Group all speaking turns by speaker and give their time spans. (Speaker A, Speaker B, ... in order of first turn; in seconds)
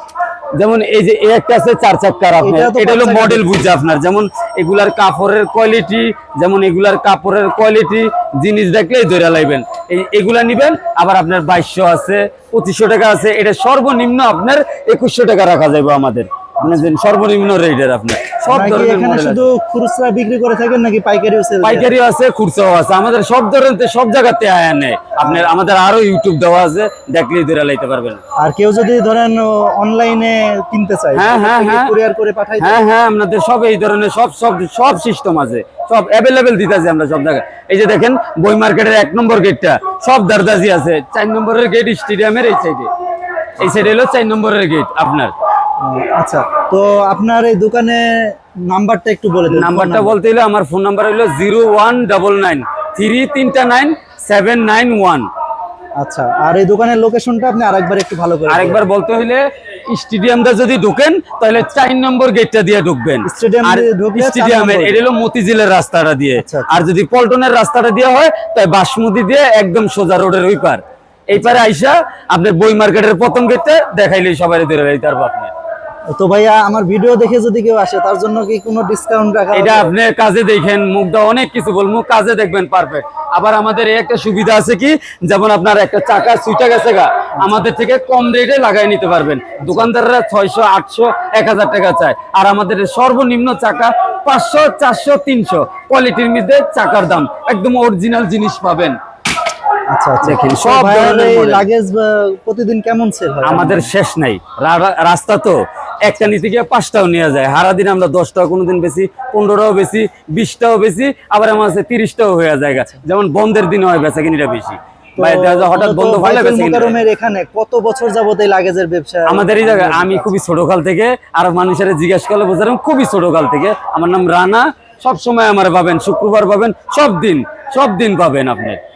Speaker A: 0.6-19.5, 21.6-28.2, 31.1-31.9, 32.6-42.9, 43.6-45.3, 49.5-55.3, 58.5-75.5, 79.5-99.0, 100.2-101.6, 103.4-117.0, 119.3-128.8
Speaker B: 2.4-3.8, 18.5-21.9, 25.2-25.5, 28.4-32.8, 43.6-43.9, 45.8-50.1, 56.0-58.8, 63.2-65.0, 66.4-66.9, 76.1-79.9, 87.4-87.6, 89.6-89.9, 99.9-103.9, 115.2-120.3